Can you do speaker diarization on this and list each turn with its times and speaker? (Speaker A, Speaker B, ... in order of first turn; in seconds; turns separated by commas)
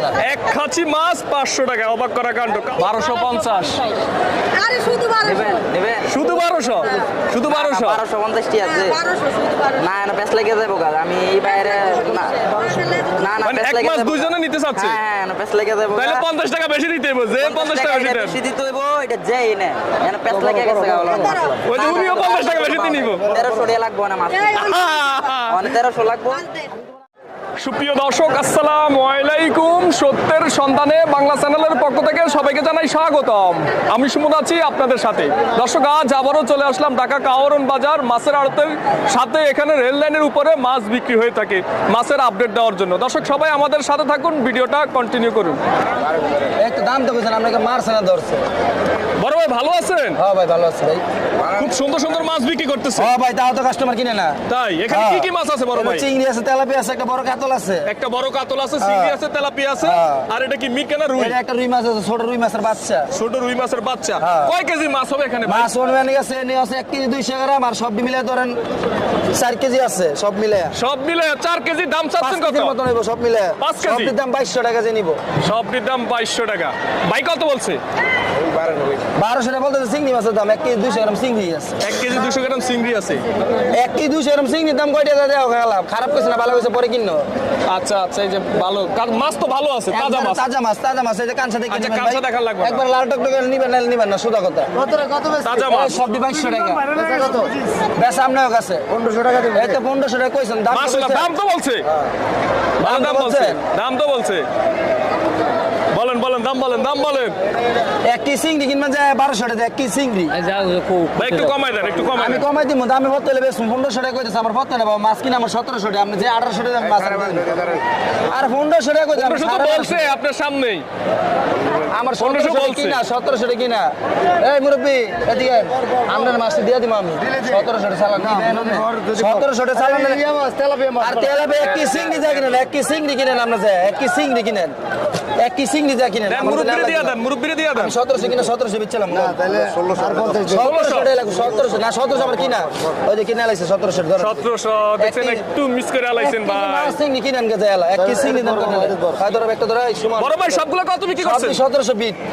Speaker A: 0.2-3.9, Speaker B: 4.6-5.3, Speaker C: 5.2-6.1, Speaker A: 6.0-8.0, Speaker C: 7.4-9.1, Speaker B: 8.9-9.6, Speaker C: 9.8-12.6, Speaker B: 12.5-13.1, Speaker C: 13.1-16.2, Speaker A: 13.4-15.0, Speaker A: 15.9-18.4, Speaker C: 17.4-24.6, Speaker A: 21.7-23.3, Speaker A: 24.5-25.6, Speaker C: 25.5-26.5, Speaker A: 27.6-45.6, Speaker D: 46.6-48.4, Speaker A: 49.2-50.2, Speaker D: 50.2-51.0, Speaker A: 51.5-53.1, Speaker D: 53.0-57.9, Speaker A: 54.5-56.1, Speaker A: 57.8-61.4, Speaker D: 58.8-59.2, Speaker D: 59.8-60.3, Speaker D: 61.2-63.1, Speaker A: 63.1-65.7, Speaker D: 64.2-64.5, Speaker D: 65.5-68.6, Speaker D: 69.3-70.8, Speaker A: 70.7-72.8, Speaker D: 72.2-75.2, Speaker A: 73.6-74.1, Speaker A: 75.4-77.8, Speaker D: 79.1-81.8, Speaker A: 81.8-83.2, Speaker D: 83.7-87.3, Speaker A: 87.7-90.5, Speaker D: 89.9-94.8, Speaker A: 91.7-92.8, Speaker A: 95.4-96.0, Speaker D: 95.5-97.0, Speaker E: 97.0-97.5, Speaker D: 97.9-98.9, Speaker E: 99.0-99.6, Speaker D: 99.5-101.3, Speaker A: 100.7-101.9, Speaker A: 102.8-104.5, Speaker D: 102.8-103.6, Speaker A: 105.9-107.3, Speaker D: 108.1-110.7, Speaker A: 111.1-112.5, Speaker D: 112.1-117.5, Speaker E: 117.2-117.8, Speaker D: 118.3-120.1, Speaker A: 119.2-120.8, Speaker D: 121.8-130.2, Speaker A: 122.2-123.0, Speaker E: 128.3-129.3, Speaker E: 130.2-131.0, Speaker D: 131.0-134.8, Speaker D: 135.4-137.2, Speaker A: 136.3-137.9, Speaker D: 137.7-139.4, Speaker E: 139.1-140.7, Speaker D: 140.4-144.4, Speaker A: 140.5-141.1, Speaker A: 144.2-147.0, Speaker D: 145.0-145.4, Speaker D: 146.2-150.6, Speaker E: 148.0-149.2, Speaker A: 150.2-151.6, Speaker D: 151.2-152.2